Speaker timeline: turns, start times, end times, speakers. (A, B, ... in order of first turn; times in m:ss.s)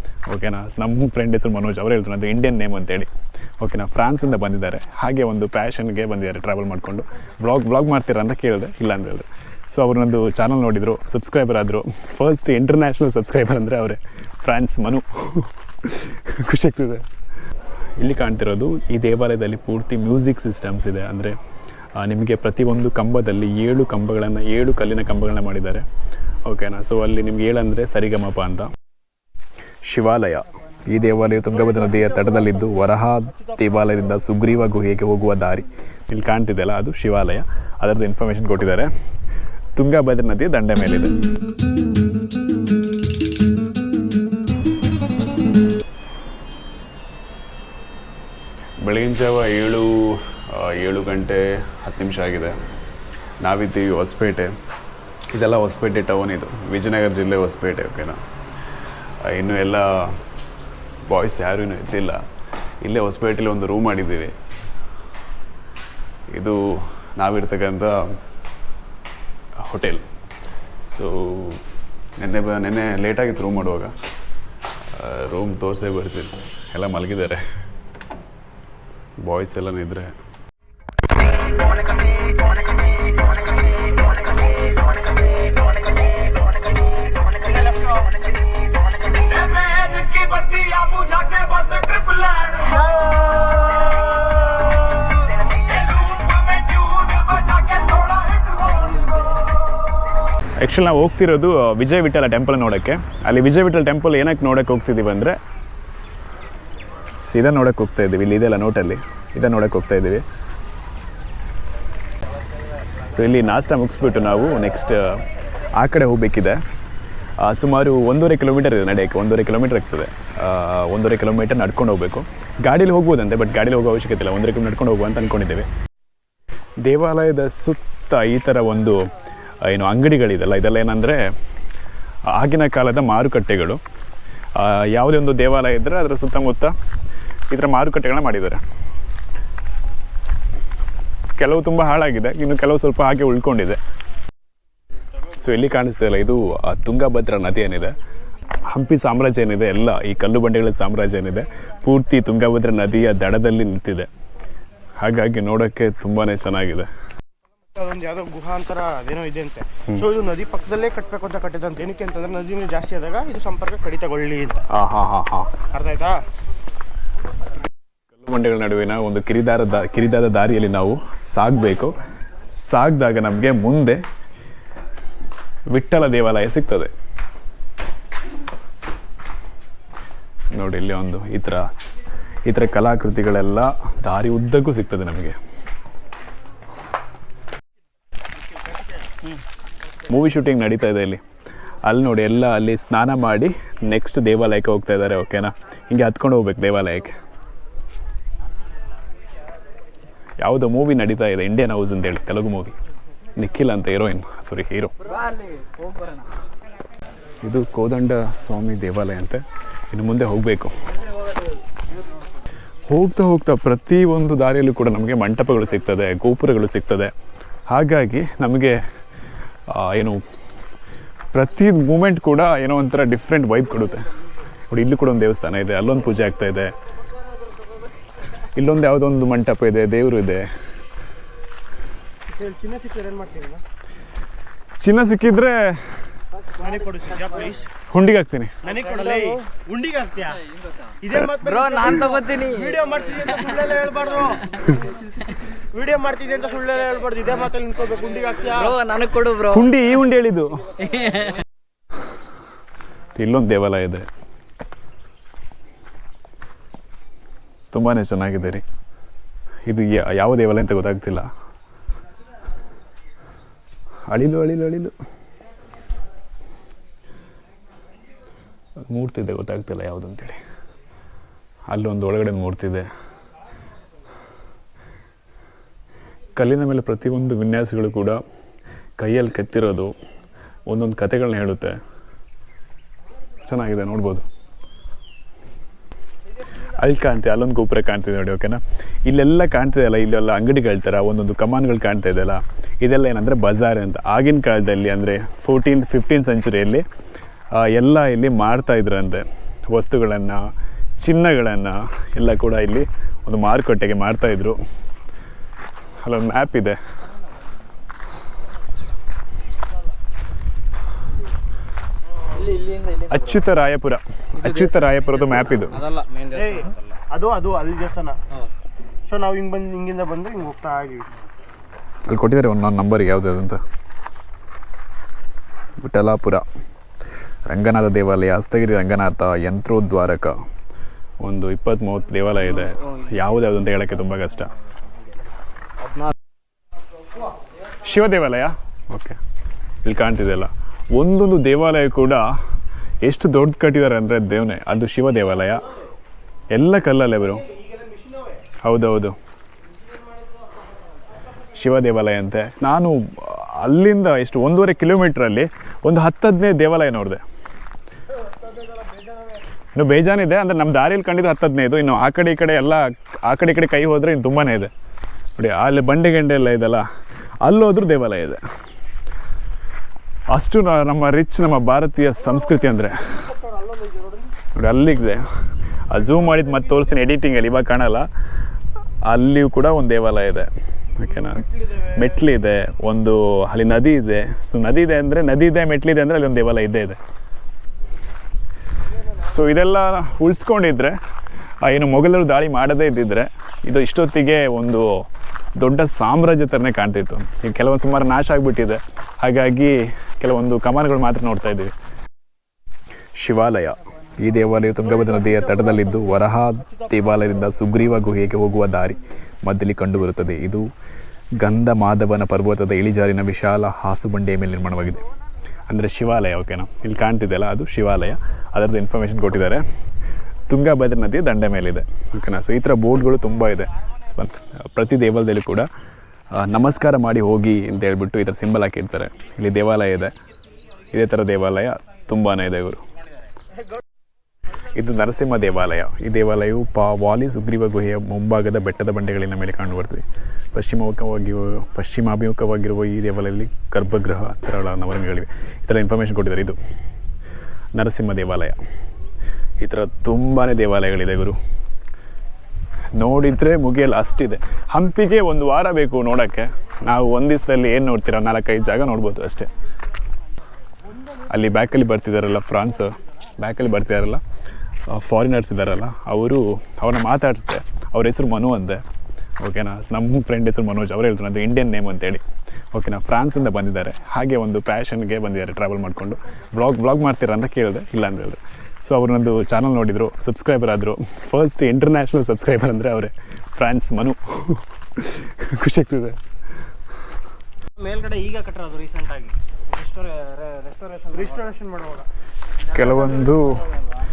0:00.3-0:17.1 A
0:18.0-0:21.4 A
0:22.0-0:25.8 A
0:26.4-0:28.7 A
0:29.8-0:38.9 A
0:39.8-0:41.2 A
0:48.8-0:52.6 A
0:53.4-0:54.6 A
0:55.3-0:58.2 A
0:59.2-1:00.3 A
1:01.1-1:02.3 A
1:02.8-1:04.4 A
1:06.3-1:08.2 A
1:09.6-1:10.1 A
1:10.9-1:11.6 A
1:12.2-1:13.9 A
1:14.9-1:17.4 A
1:19.2-1:20.2 A
1:27.4-1:28.1 B
1:29.2-1:32.6 A
1:32.6-1:33.9 B
1:35.8-1:38.4 A
1:38.5-1:39.2 B
1:40.6-1:45.4 A
1:47.2-1:50.2 A
1:53.1-1:55.2 A
1:55.8-1:56.6 A
1:57.4-2:05.7 A
2:06.8-2:11.3 A
2:12.3-2:13.8 A
2:14.5-2:16.7 A
2:17.5-2:18.6 A
2:21.4-2:23.8 A
2:25.4-2:28.0 A
2:28.7-2:34.1 A
2:35.0-2:36.9 A
2:37.7-2:44.6 B
2:44.7-2:45.5 A
2:45.7-2:46.2 B
2:48.1-2:52.0 A
2:52.5-2:54.0 A
2:55.7-2:56.9 A
3:00.5-3:01.8 A
3:02.4-3:05.4 A
3:08.5-3:08.9 B
3:10.1-3:11.2 A
3:11.8-3:17.1 A
3:20.4-3:22.8 A
3:23.4-3:24.9 A
3:25.0-3:26.3 C
3:27.4-3:30.8 A
3:32.9-3:37.1 A
3:37.7-3:38.8 A
3:39.7-3:40.2 A
3:41.3-3:44.1 A
3:44.7-3:46.7 A
3:48.5-3:50.4 A
3:52.3-3:53.6 B
3:54.8-3:56.1 A
3:56.6-3:57.7 B
3:56.6-3:57.6 C
3:57.9-3:58.6 A
3:58.6-4:00.4 B
3:58.7-3:59.4 C
4:00.4-4:04.0 C
4:01.0-4:04.7 B
4:04.8-4:05.1 C
4:05.7-4:08.8 B
4:08.4-4:09.8 C
4:09.5-4:10.7 A
4:10.8-4:11.4 C
4:13.1-4:14.1 A
4:17.7-4:18.6 A
4:19.6-4:21.3 A
4:24.1-4:24.9 A
4:28.8-4:30.4 A
4:31.7-4:32.9 A
4:36.4-4:38.2 A
4:39.0-4:40.0 A
4:40.7-4:41.8 A
4:43.4-4:44.2 A
4:46.7-4:56.9 A
4:57.5-5:04.6 A
5:06.0-5:06.8 A
5:12.3-5:13.4 C
5:13.1-5:15.8 A
5:14.4-5:17.0 C
5:16.3-5:18.2 B
5:19.1-5:21.1 B
5:22.1-5:23.6 A
5:25.8-5:26.4 A
5:27.5-5:30.4 A
5:31.2-5:34.5 A
5:32.5-5:33.2 C
5:35.8-5:36.1 C
5:37.8-5:39.2 A
5:39.8-5:42.3 A
5:43.0-5:45.6 A
5:46.5-5:47.4 A
5:47.6-5:48.4 B
5:48.6-5:49.2 A
5:51.6-5:57.2 A
5:59.8-6:04.7 A
6:05.4-6:06.9 A
6:07.4-6:08.4 A
6:10.3-6:13.1 A
6:13.0-6:14.3 B
6:14.5-6:15.3 A
6:15.9-6:18.1 A
6:19.0-6:27.0 A
6:21.1-6:22.1 B
6:29.2-6:31.0 A
6:31.6-6:41.7 A
6:43.2-6:50.7 A
6:44.9-6:46.0 B
6:51.4-6:55.0 A
6:55.7-6:59.6 A
7:00.5-7:05.7 A
7:06.3-7:10.1 A
7:10.9-7:12.8 A
7:14.7-7:26.6 A
7:27.7-7:28.6 A
7:29.6-7:31.4 A
7:32.9-7:39.5 A
7:41.3-7:44.2 A
7:44.9-7:48.8 A
7:49.4-8:06.2 A
8:07.8-8:11.5 C
8:11.1-8:12.1 B
8:12.7-8:13.6 C
8:12.7-8:13.6 A